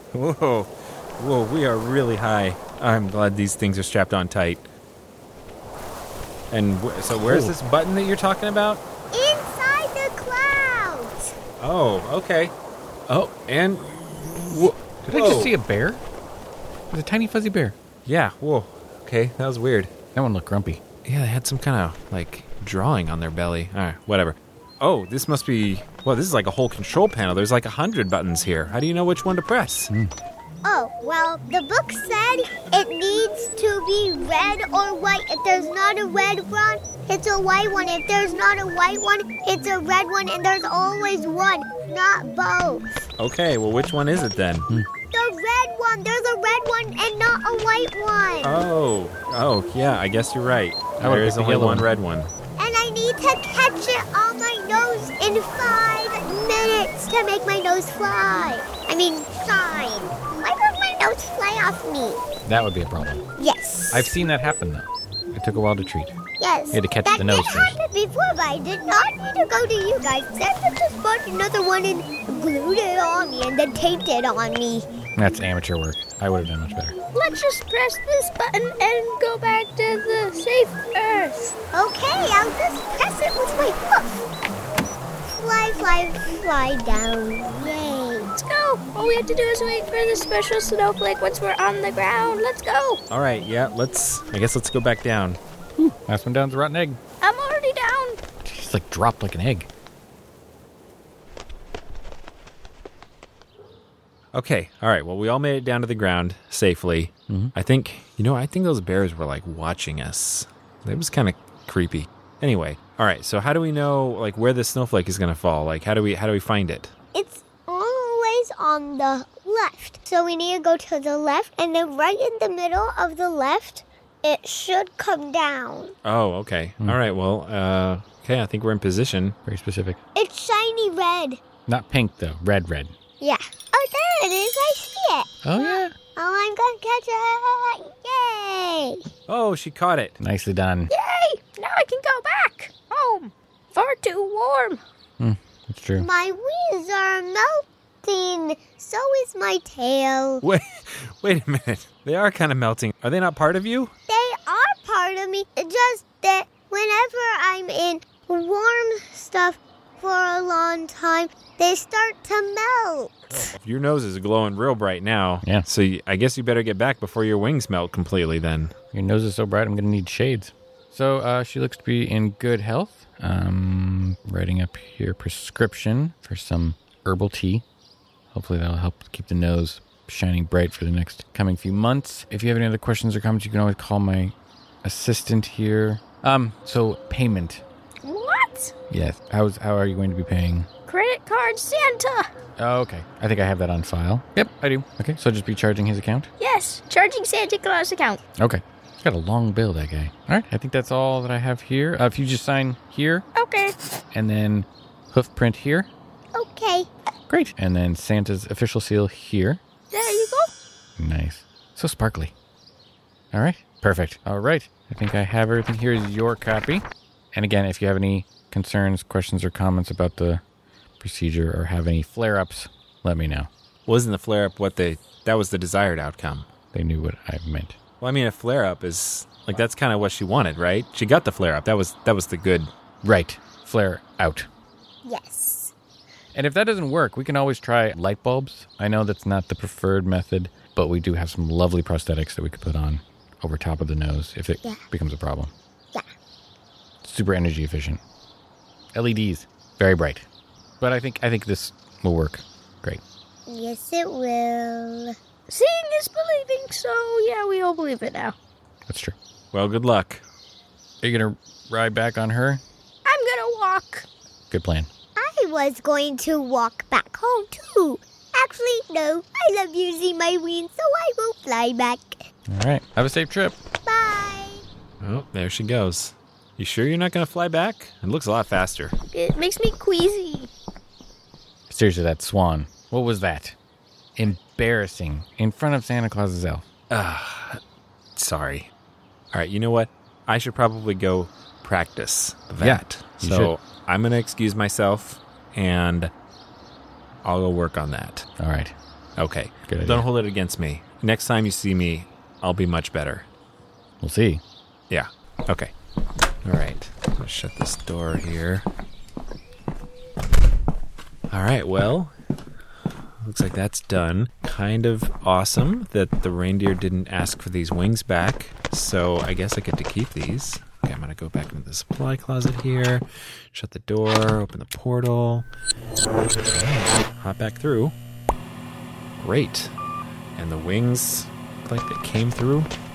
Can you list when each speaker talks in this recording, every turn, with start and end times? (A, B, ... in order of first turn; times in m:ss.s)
0:00.1-0:04.6 A
0:06.5-0:08.8 A
0:07.1-0:07.5 B
0:09.1-0:11.3 C
0:11.6-0:12.5 A
0:13.1-0:13.9 A
0:14.5-0:15.5 A
0:14.5-0:16.0 B
0:16.9-0:17.7 B
0:18.0-0:19.9 A
0:20.1-0:20.8 B
0:21.0-0:29.9 A
0:30.6-0:43.1 C
0:43.2-0:44.7 A
0:45.1-0:48.6 C
0:48.4-0:52.3 A
0:51.0-0:51.9 B
0:52.6-1:02.2 C
1:02.4-1:03.2 B
1:03.4-1:04.1 C
1:03.9-1:06.1 B
1:06.4-1:14.9 C
1:06.7-1:07.8 B
1:15.2-1:16.9 B
1:17.1-1:21.5 D
1:21.7-1:24.2 C
1:25.2-1:28.3 C
1:28.4-1:33.0 D
1:33.1-1:35.4 A
1:35.8-1:37.0 B
1:37.2-1:38.2 D
1:38.4-1:39.7 B
1:44.3-1:56.9 A
1:47.3-1:47.5 B
1:57.1-2:05.9 C
2:06.0-2:09.3 A
2:09.5-2:10.0 B
2:10.1-2:11.4 C
2:11.7-2:12.9 B
2:13.2-2:15.4 C
2:15.4-2:15.9 B
2:16.1-2:19.0 C
2:19.3-2:20.2 A
2:20.2-2:20.9 B
2:20.9-2:24.8 D
2:25.2-2:26.1 B
2:26.0-2:30.4 C
2:30.4-2:33.9 A
2:34.1-2:43.5 C
2:43.6-2:48.7 A
2:48.9-2:57.6 B
2:58.3-3:07.6 B
3:08.0-3:08.7 D
3:08.9-3:10.7 B
3:10.9-3:12.3 D
3:12.6-3:16.3 B
3:16.4-3:18.2 D
3:18.4-3:23.3 B
3:23.3-3:23.8 D
3:24.1-3:25.9 B
3:26.3-3:26.9 C
3:27.3-3:29.6 B
3:29.9-3:30.5 D
3:31.0-3:32.3 B
3:33.3-3:40.4 B
3:41.0-3:43.5 B
3:43.8-3:46.5 A
3:46.7-3:47.8 B
3:48.0-3:52.7 A
3:53.0-3:54.5 B
3:55.0-3:55.7 C
3:56.3-4:05.5 B
4:07.0-4:08.0 B
4:08.9-4:10.3 B
4:10.8-4:13.0 B
4:13.5-4:15.1 C
4:15.5-4:18.3 D
4:18.9-4:19.2 B
4:19.5-4:20.2 A
4:21.0-4:22.6 B
4:23.0-4:24.0 D
4:24.5-4:24.9 B
4:25.2-4:32.2 C
4:32.5-4:33.6 B
4:33.8-4:34.6 C
4:35.0-4:38.9 A
4:39.1-4:40.5 D
4:41.7-4:43.6 B
4:44.2-4:46.6 B
4:46.9-4:47.6 A
4:48.2-4:48.7 A
4:49.3-4:56.1 A
4:52.6-4:53.5 B
4:57.2-4:58.3 A
4:58.4-4:58.7 B
4:59.2-5:03.2 A
4:59.7-5:00.1 B
5:04.0-5:04.4 B
5:04.9-5:05.7 A
5:06.4-5:08.6 A
5:11.3-5:12.1 A
5:13.2-5:25.5 A
5:26.5-5:27.9 A
5:29.2-5:29.7 A
5:30.4-5:32.7 A